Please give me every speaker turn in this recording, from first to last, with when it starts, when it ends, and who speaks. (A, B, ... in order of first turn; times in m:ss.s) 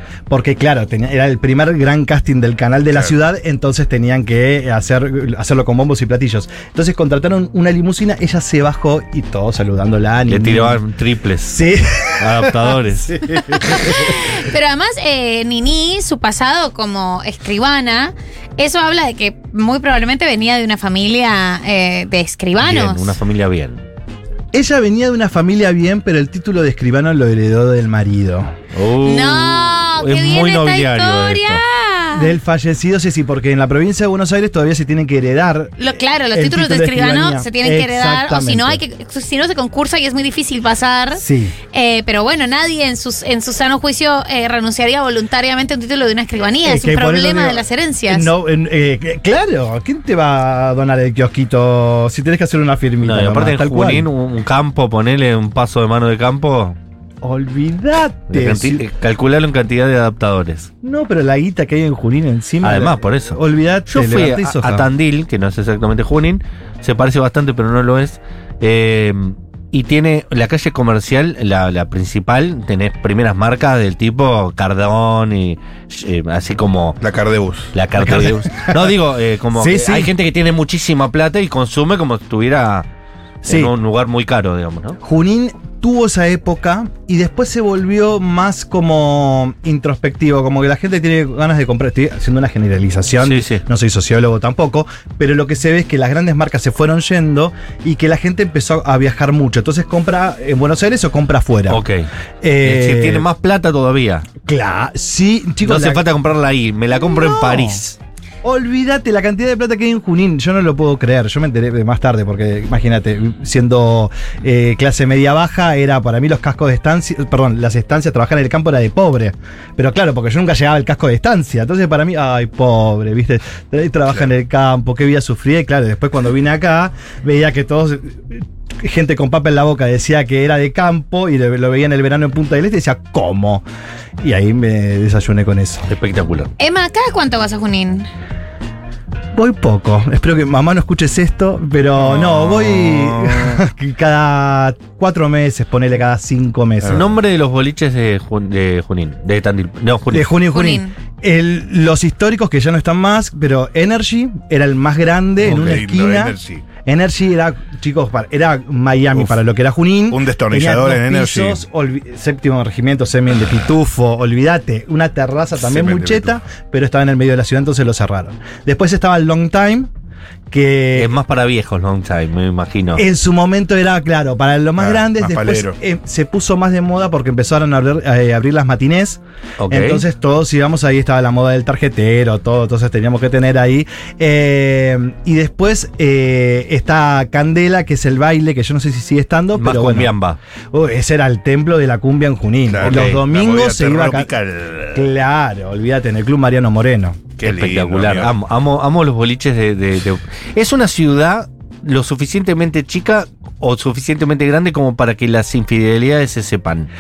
0:00.3-0:10.8 A
0:10.3-0:11.6 B
0:11.4-0:14.5 A
0:12.2-0:13.2 B
0:13.5-0:23.2 C
0:22.6-0:23.8 B
0:24.5-0:28.5 A
0:28.7-0:31.6 B
0:29.0-0:32.3 C
0:32.1-0:38.8 A
0:35.8-0:48.3 C
0:41.2-0:41.6 A
0:46.6-0:54.1 A
0:53.0-0:56.8 B
0:57.2-0:58.9 A
0:58.3-1:00.7 B
1:00.8-1:04.9 A
1:02.6-1:17.0 B
1:17.0-1:17.7 D
1:17.7-1:22.9 B
1:18.0-1:19.0 A
1:19.6-1:20.1 A
1:23.4-1:23.7 A
1:23.4-1:25.0 B
1:25.0-1:41.8 A
1:33.2-1:33.6 B
1:41.7-1:42.1 B
1:42.4-1:43.3 A
1:42.6-1:44.3 B
1:44.4-1:46.1 A
1:45.6-1:48.0 B
1:46.9-1:47.8 A
1:48.4-2:13.6 A
2:14.2-2:15.9 A
2:15.9-2:16.5 B
2:16.6-2:18.1 C
2:19.4-2:27.1 A
2:22.0-2:23.6 D
2:26.9-2:30.3 B
2:30.1-2:49.9 A
2:30.5-2:31.0 C
2:35.4-2:36.7 D
2:40.1-2:41.6 D
2:45.6-2:46.4 D
2:50.5-2:51.1 A
2:50.9-2:53.0 B
2:53.0-3:10.1 A
2:54.8-2:55.8 D
2:59.6-3:00.0 B
3:09.6-3:10.4 B
3:10.7-3:14.3 A
3:12.7-3:15.1 D
3:12.8-3:13.2 B
3:14.9-3:17.2 A
3:17.4-3:18.4 D
3:17.4-3:26.9 B